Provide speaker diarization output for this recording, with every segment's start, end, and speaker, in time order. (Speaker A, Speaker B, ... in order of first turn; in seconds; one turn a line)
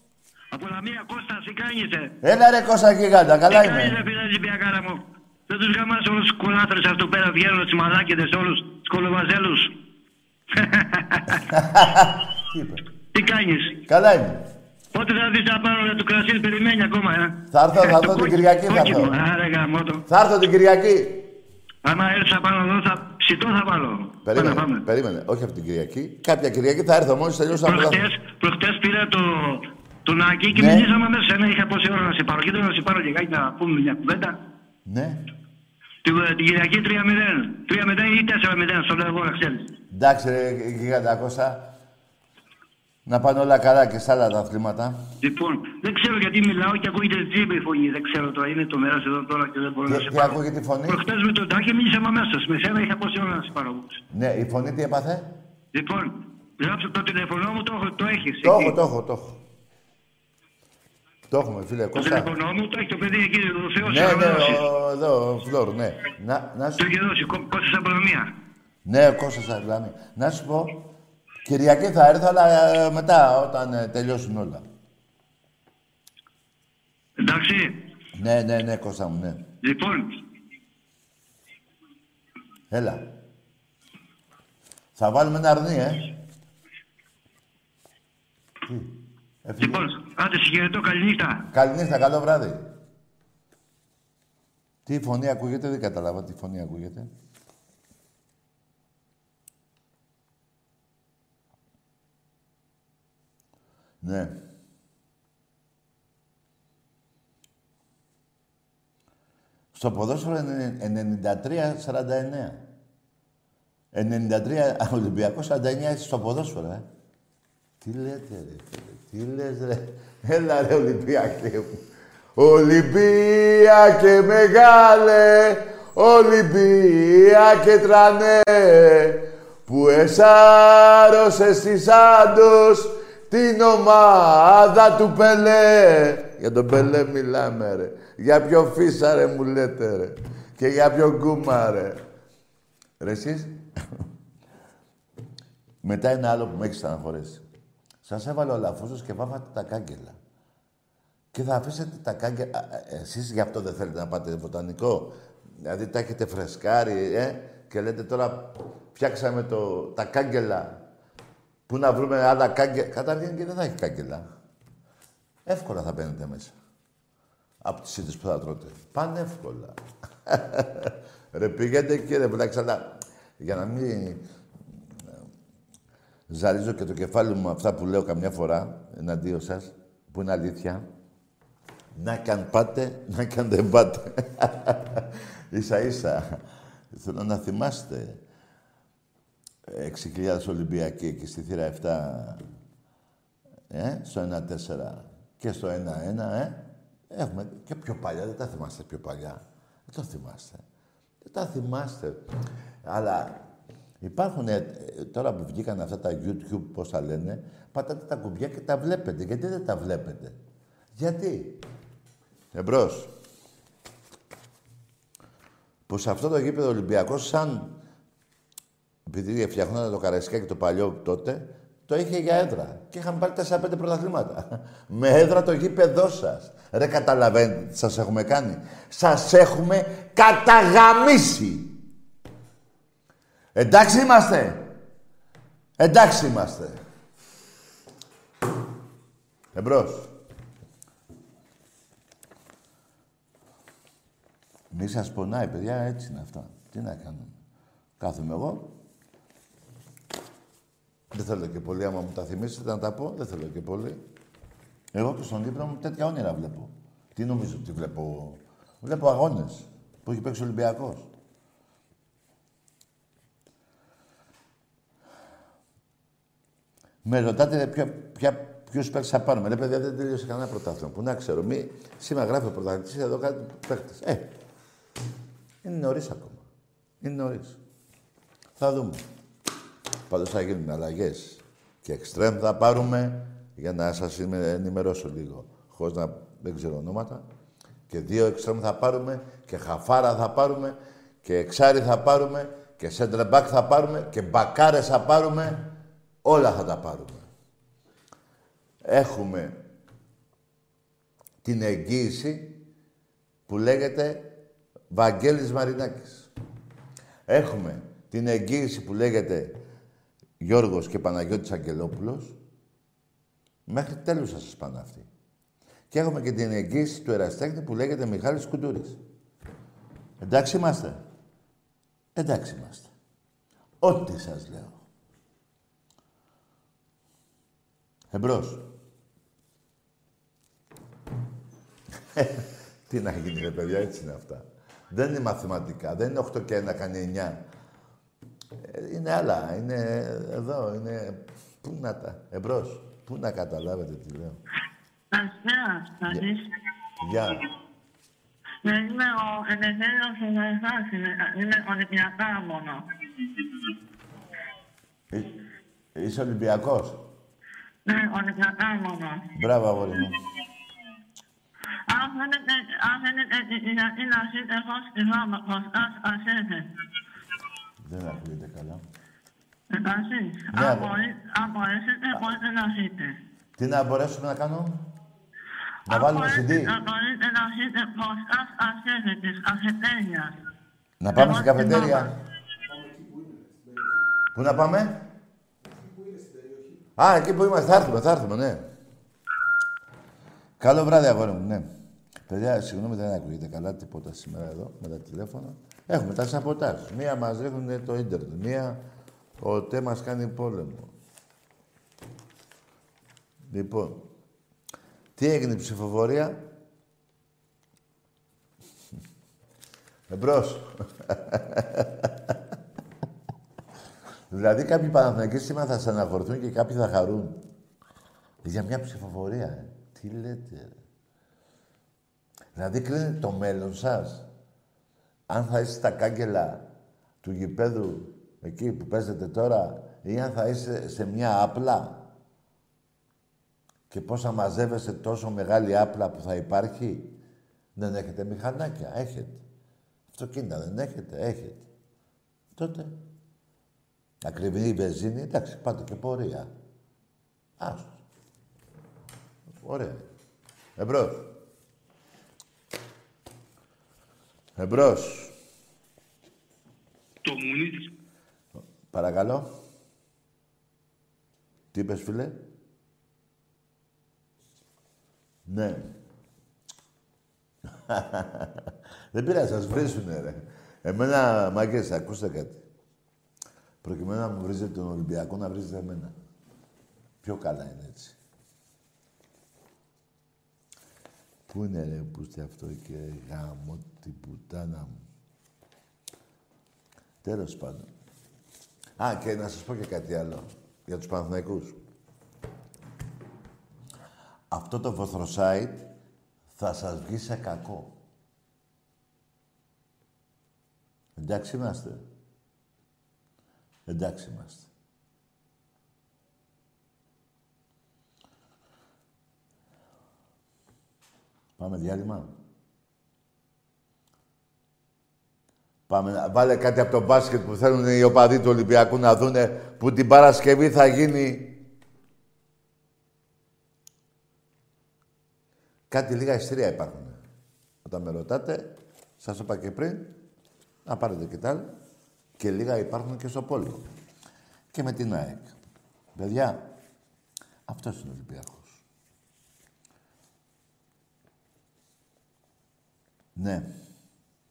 Speaker A: 0.5-2.1
Speaker B: 2.2-4.0
Speaker A: 3.5-9.7
Speaker A: 10.5-11.4
Speaker B: 11.4-12.8
Speaker A: 13.1-13.8
Speaker B: 13.9-14.4
Speaker A: 14.9-20.0
Speaker B: 17.5-19.1
Speaker B: 20.1-21.3
Speaker A: 21.8-24.8
Speaker B: 24.2-28.1
Speaker A: 27.6-34.4
Speaker B: 30.5-30.9
Speaker B: 34.9-35.2
Speaker A: 36.0-39.7
Speaker B: 39.9-41.7
Speaker B: 43.1-45.0
Speaker A: 45.2-54.0
Speaker B: 49.9-51.0
Speaker B: 54.1-55.3
Speaker A: 55.7-58.8
Speaker B: 58.4-59.4
Speaker B: 61.3-62.3
Speaker A: 62.0-64.6
Speaker B: 63.8-66.9
Speaker A: 66.8-68.3
Speaker B: 68.9-70.8
Speaker B: 71.5-74.6
Speaker A: 77.2-77.7
Speaker B: 78.2-79.4
Speaker A: 79.6-80.1
Speaker B: 82.7-83.1
Speaker B: 85.0-86.1
Speaker B: 88.7-89.9
Speaker A: 89.6-91.4
Speaker B: 91.5-92.7
Speaker B: 94.9-97.1
Speaker B: 104.0-104.4
Speaker B: 109.7-112.7
Speaker B: 113.9-116.9
Speaker B: 117.8-121.8
Speaker B: 122.4-142.0
Speaker B: 143.0-144.0
Speaker B: 145.8-147.4
Speaker B: 148.0-150.2
Speaker B: 151.3-160.8
Speaker B: 161.7-164.2
Speaker B: 165.5-166.6
Speaker B: 167.6-174.2
Speaker B: 176.3-180.8
Speaker B: 182.0-186.4
Speaker B: 186.9-188.2
Speaker B: 189.7-192.4
Speaker B: 193.7-200.6
Speaker B: 201.2-202.2
Speaker B: 202.8-203.4
Speaker B: 204.0-210.4
Speaker B: 211.0-211.6
Speaker B: 212.5-213.1
Speaker B: 215.9-217.8
Speaker B: 219.1-231.7
Speaker B: 233.6-234.7
Speaker B: 235.8-236.8
Speaker B: 239.6-240.1
Speaker B: 244.7-247.4
Speaker B: 248.0-248.7
Speaker B: 251.1-254.0
Speaker B: 254.9-261.1
Speaker B: 267.1-274.3
Speaker B: 275.6-276.4
Speaker B: 277.0-277.6
Speaker B: 278.6-279.0
Speaker B: 280.1-287.2
Speaker B: 287.9-297.3
Speaker B: 298.9-299.6
Speaker B: 301.4-302.6
Speaker B: 303.5-304.3
Speaker B: 304.9-306.3
Speaker B: 307.3-309.6
Speaker B: 310.4-312.4
Speaker B: 313.7-315.1
Speaker B: 315.9-319.0
Speaker B: 320.2-321.0
Speaker B: 322.2-322.9
Speaker B: 323.8-324.8
Speaker B: 328.1-328.6
Speaker B: 332.1-337.4
Speaker B: 338.6-344.4
Speaker C: 345.1-346.5
Speaker B: 347.0-347.4
Speaker C: 348.6-352.8
Speaker B: 355.9-357.0
Speaker C: 357.9-359.2
Speaker B: 359.4-360.2
Speaker C: 361.9-366.7
Speaker B: 367.8-368.9
Speaker C: 369.7-373.2
Speaker B: 370.5-370.9
Speaker B: 373.6-374.8
Speaker B: 375.9-376.7
Speaker C: 375.9-380.3
Speaker B: 381.0-382.1
Speaker C: 381.1-382.1
Speaker B: 384.3-385.0
Speaker B: 387.0-388.6
Speaker B: 390.6-391.7
Speaker B: 392.3-398.8
Speaker B: 399.4-400.9
Speaker B: 403.5-404.1
Speaker B: 405.2-406.4
Speaker B: 410.1-412.3
Speaker B: 414.3-417.4
Speaker B: 418.4-420.8
Speaker B: 422.6-424.3
Speaker B: 425.3-426.7
Speaker B: 427.2-432.1
Speaker B: 433.9-437.1
Speaker B: 437.8-439.4
Speaker B: 440.1-441.7
Speaker B: 442.6-443.0
Speaker B: 444.2-446.5
Speaker B: 447.6-448.0
Speaker B: 449.6-450.1
Speaker B: 450.8-451.3
Speaker B: 454.6-455.3
Speaker A: 457.2-457.9
Speaker B: 458.6-459.5
Speaker B: 461.7-462.4
Speaker B: 465.5-465.9
Speaker B: 467.9-472.6
Speaker B: 473.8-476.1
Speaker B: 477.2-478.2
Speaker B: 481.5-485.0
Speaker B: 487.2-487.9
Speaker B: 489.0-491.8
Speaker B: 494.5-495.9
Speaker B: 496.6-497.9
Speaker B: 501.2-502.0
Speaker B: 503.9-504.7
Speaker B: 511.6-512.3
Speaker B: 515.9-521.6
Speaker B: 525.9-527.2
Speaker B: 527.9-530.2
Speaker B: 530.9-531.7
Speaker B: 532.4-533.9
Speaker B: 534.7-535.5
Speaker B: 536.1-536.7
Speaker B: 537.7-538.8
Speaker B: 543.4-543.7